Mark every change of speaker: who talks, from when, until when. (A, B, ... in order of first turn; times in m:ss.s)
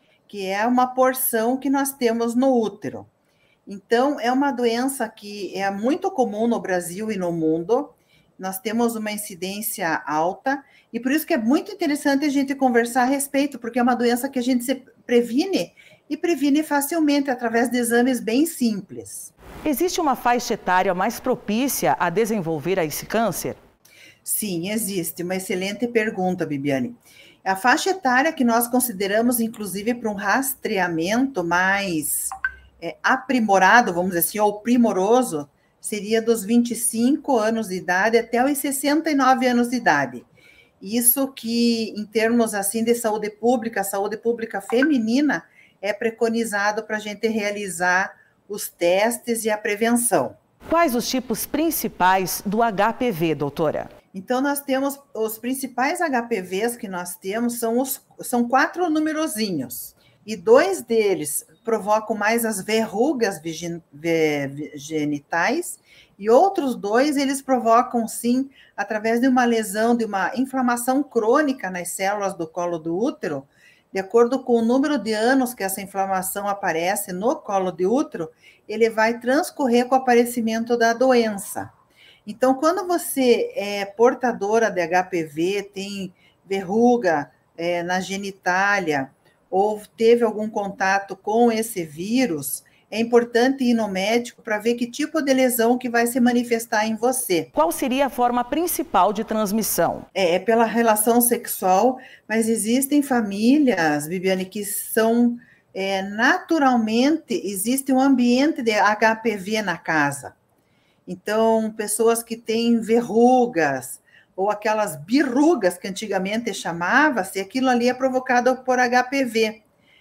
0:00.3-0:03.1 A
0:03.7-0:19.3 A
0:19.6-0:23.6 B
0:24.2-0:40.3 A
0:40.8-0:50.4 A
0:50.7-0:53.9 B
0:54.1-1:21.7 A
1:22.2-1:37.5 A
1:37.5-1:40.1 B
1:40.1-1:50.4 A
1:51.1-1:59.6 A